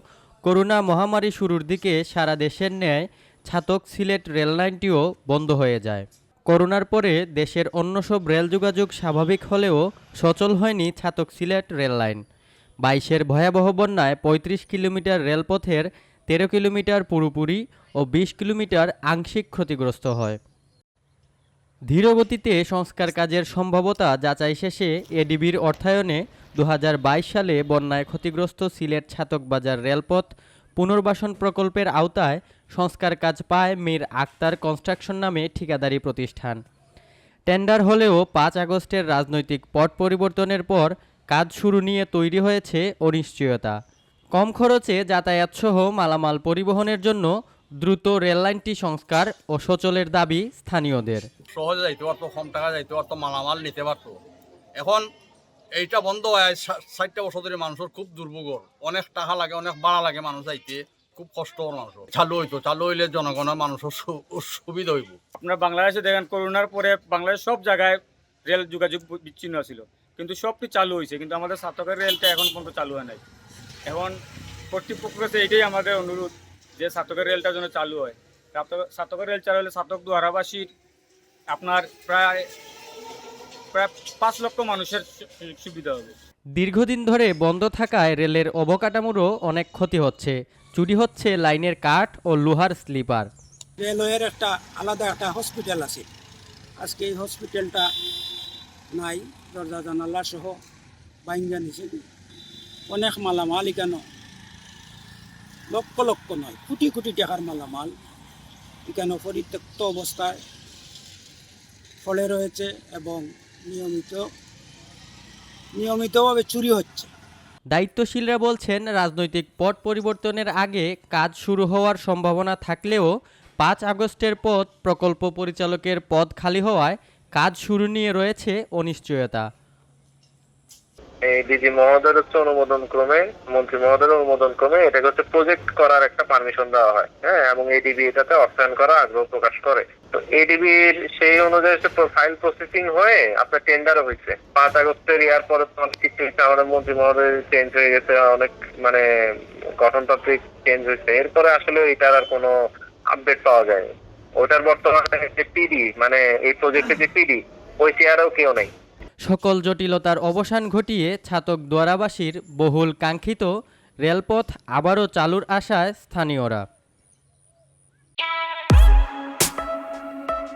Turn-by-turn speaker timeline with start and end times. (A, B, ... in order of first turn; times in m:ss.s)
0:00.4-0:12.2 A
0:12.8-0:20.4 A
0:21.9-0:36.6 A
0:37.5-0:43.8 A
0:44.3-0:51.2 A
0:51.5-0:54.2 B
0:54.8-0:55.0 B
0:55.7-1:05.2 B
1:05.4-1:13.2 C
1:13.8-1:14.1 C
1:14.7-1:20.7 C
1:21.5-1:22.4 C
1:23.7-1:26.1 C
1:26.6-1:33.3 A
1:33.8-1:36.1 D
1:36.8-1:37.9 D
1:38.9-1:40.6 D
1:41.2-1:42.0 D
1:42.9-1:44.0 D
1:45.7-1:47.9 D
1:48.8-1:50.4 D
1:52.0-1:54.2 D
1:55.8-1:57.1 D
1:57.7-2:03.1 A
2:03.6-2:09.4 A
2:11.2-2:29.0 E
2:29.8-2:32.5 E
2:33.1-2:33.9 E
2:34.4-2:38.7 E
2:39.2-2:43.5 A
2:44.0-2:46.6 A